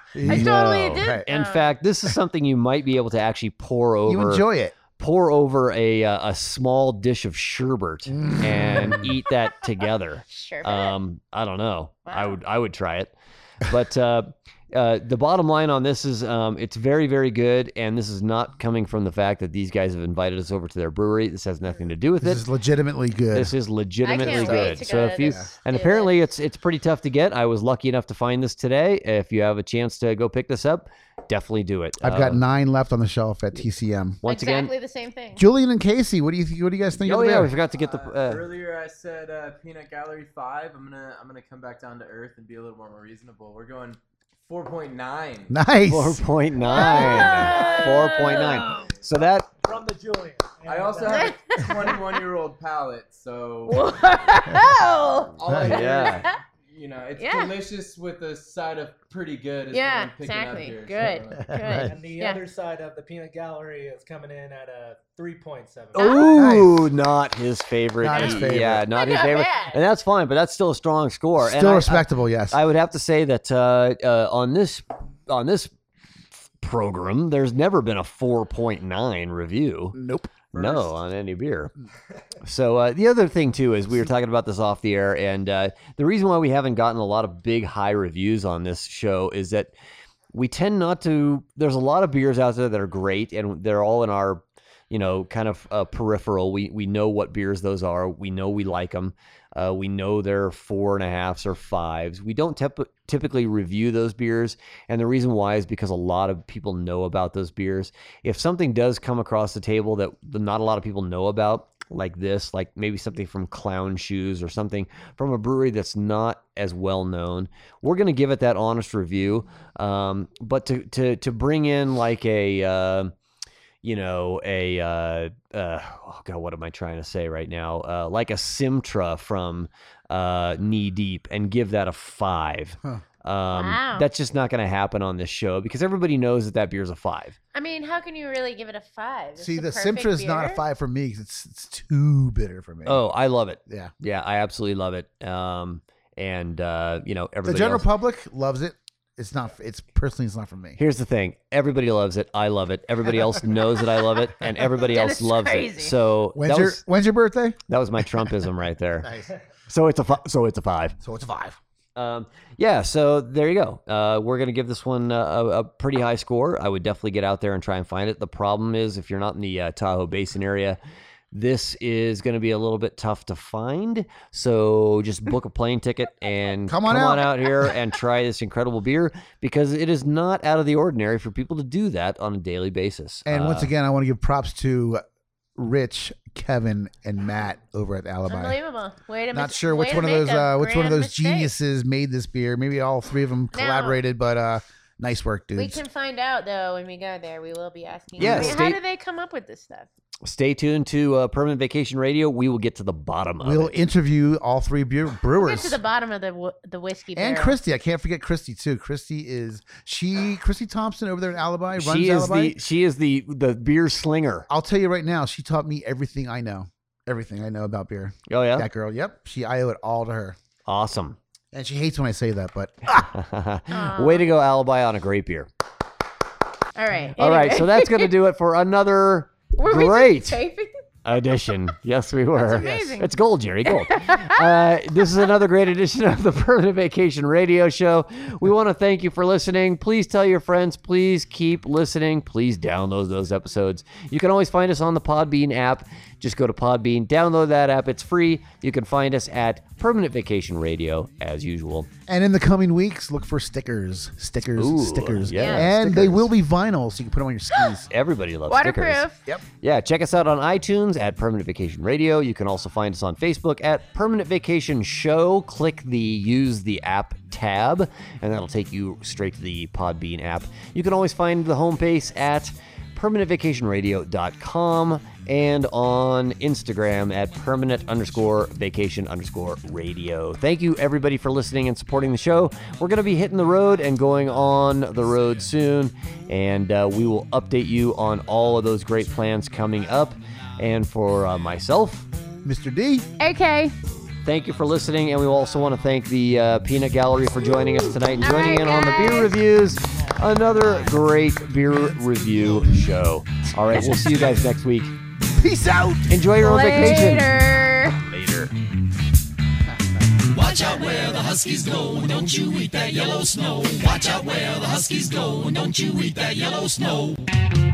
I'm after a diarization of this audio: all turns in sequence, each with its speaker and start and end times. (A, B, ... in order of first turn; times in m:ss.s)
0:00.1-0:01.2 A
0:00.2-0:04.4 B
0:00.3-0:01.8 C
0:04.1-0:04.7 A
0:05.0-0:22.4 B
0:08.1-0:09.2 A
0:10.3-0:11.0 C
0:12.1-0:12.4 C
0:22.2-0:23.5 A
0:23.3-0:32.4 B
0:24.0-0:26.1 C
0:24.1-0:25.5 A
0:32.0-0:34.2 A
0:34.2-0:34.7 B
0:34.2-0:35.4 C
0:35.4-0:37.5 A
0:37.0-0:38.5 B
0:37.7-0:45.6 D
0:45.5-0:47.4 A
0:45.9-0:49.5 B
0:46.6-0:48.9 C
0:47.0-0:49.0 D
0:49.6-0:51.4 E
0:50.7-0:53.9 D
0:51.0-0:52.0 C
0:53.7-0:56.4 C
0:55.4-1:01.6 D
0:55.5-0:55.8 A
0:55.6-0:56.2 B
0:57.2-0:57.6 C
0:59.7-1:02.4 C
1:01.4-1:01.9 A
1:01.8-1:06.2 E
1:05.9-1:06.4 C
1:06.0-1:15.7 B
1:06.3-1:06.8 A
1:08.0-1:08.8 A
1:08.1-1:09.8 C
1:11.4-1:12.6 A
1:16.6-1:20.0 B
1:19.9-1:20.9 A
1:20.5-1:21.7 B
1:22.4-1:29.7 B
1:30.3-2:03.1 B
2:03.8-2:17.4 B
2:13.5-2:14.1 C
2:17.5-2:20.6 C
2:19.4-2:23.0 A
2:22.8-2:27.9 B
2:23.7-2:23.9 A
2:27.4-2:30.8 A
2:30.8-2:36.8 B
2:34.8-2:36.0 C
2:36.4-2:37.6 A
2:37.7-2:39.1 B
2:39.0-2:39.3 A
2:39.7-2:41.0 B
2:41.0-2:41.6 A
2:42.0-2:50.8 B
2:51.3-3:03.7 B
2:56.7-2:57.8 A
3:03.3-3:05.0 A
3:05.6-3:08.6 A
3:08.3-3:11.5 C
3:09.3-3:15.8 A
3:13.5-3:14.0 C
3:15.6-3:19.9 C
3:18.2-3:18.6 A
3:18.2-3:18.8 B
3:20.2-3:23.7 B
3:23.4-3:25.8 A
3:25.4-3:27.6 C
3:27.2-3:32.6 A
3:31.8-3:34.5 B
3:34.5-3:40.4 A
3:38.3-3:38.7 B
3:40.7-3:41.2 B
3:41.5-3:43.1 A
3:43.1-3:45.5 B
3:43.7-3:44.3 C
3:46.8-3:48.1 C
3:47.2-3:50.4 B
3:49.6-3:50.8 C
3:51.0-4:11.9 B
3:52.4-3:53.1 C
3:52.5-3:53.0 A
3:53.6-3:54.6 C
4:12.1-4:17.9 A
4:14.6-4:16.3 B
4:15.3-4:15.7 C
4:17.8-4:19.1 B
4:18.5-4:19.2 C
4:19.6-4:52.1 B
4:52.4-4:53.1 A
4:53.2-4:53.8 C
4:54.2-5:04.9 B
4:58.2-4:59.3 C
5:05.3-5:06.2 A
5:06.1-5:07.3 B
5:06.4-5:08.0 C
5:08.0-5:08.5 B
5:10.4-5:17.1 F
5:12.2-5:14.2 B
5:15.6-5:17.0 B